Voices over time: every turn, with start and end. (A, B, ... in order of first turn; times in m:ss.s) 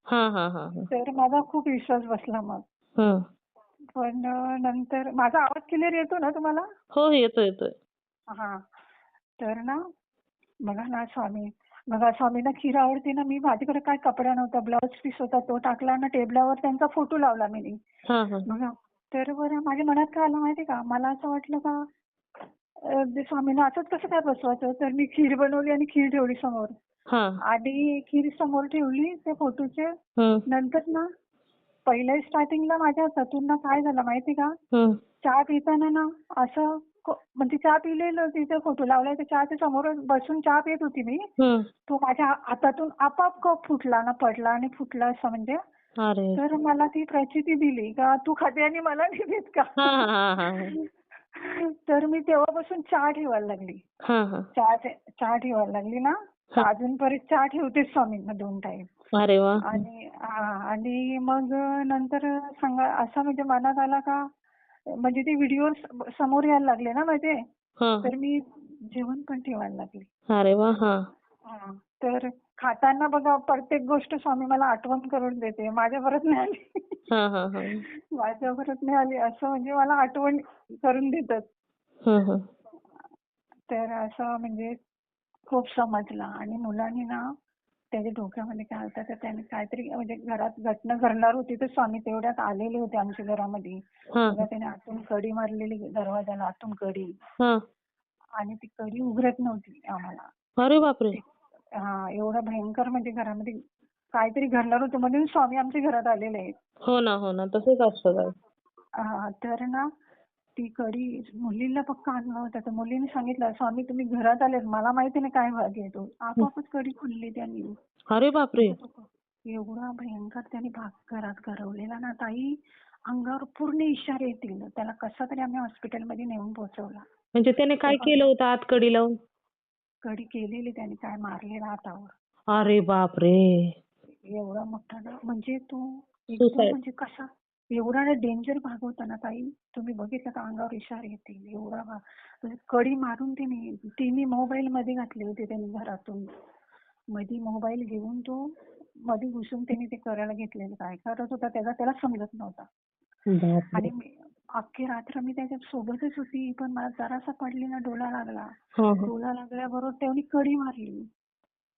0:00.1-0:00.9 A
0:00.9-0:02.6 B
0:03.9-0:06.6 B
0:07.0-0:07.7 A
0:08.3-0:08.6 B
0:09.4-0:09.8 B
0:10.6-0:17.8 B
0:18.1-0:18.4 A
0:18.5-0:21.8 B
0:22.8-0:26.7 B
0:27.1-0:27.4 A
0:27.4-0:29.9 B
0:30.2-0:30.4 A
0:30.5-0:31.1 B
0:31.9-0:34.5 B
0:35.2-0:41.3 B
0:41.4-0:41.7 A
0:41.9-0:45.6 B
0:46.0-0:46.4 A
0:46.4-0:53.8 B
0:49.8-0:50.7 A
0:54.1-0:54.4 A
0:54.5-0:58.9 B
0:59.2-0:59.6 A
0:59.6-1:04.2 B
1:05.0-1:07.4 B
1:07.8-1:08.1 A
1:08.0-1:10.1 B
1:10.3-1:11.0 A
1:11.4-1:17.0 B
1:17.1-1:17.8 A
1:18.1-1:21.4 B
1:22.1-1:22.4 A
1:23.7-1:24.8 B
1:25.5-1:27.2 B
1:27.9-1:37.1 B
1:34.2-1:34.4 A
1:38.4-1:40.3 B
1:40.6-1:41.2 A
1:41.8-1:43.6 B
1:44.1-1:46.5 B
1:46.9-1:48.3 A
1:49.0-1:49.8 B
1:50.6-1:57.7 B
1:58.1-1:58.8 A
1:58.6-2:07.0 B
2:07.4-2:09.2 A
2:07.9-2:08.2 B
2:10.0-2:12.1 B
2:12.5-2:13.7 A
2:14.2-2:26.3 B
2:16.4-2:16.8 A
2:27.1-2:28.5 B
2:29.0-2:32.7 B
2:33.3-2:33.9 A
2:33.7-2:38.5 B
2:38.8-2:39.1 A
2:39.0-2:41.0 B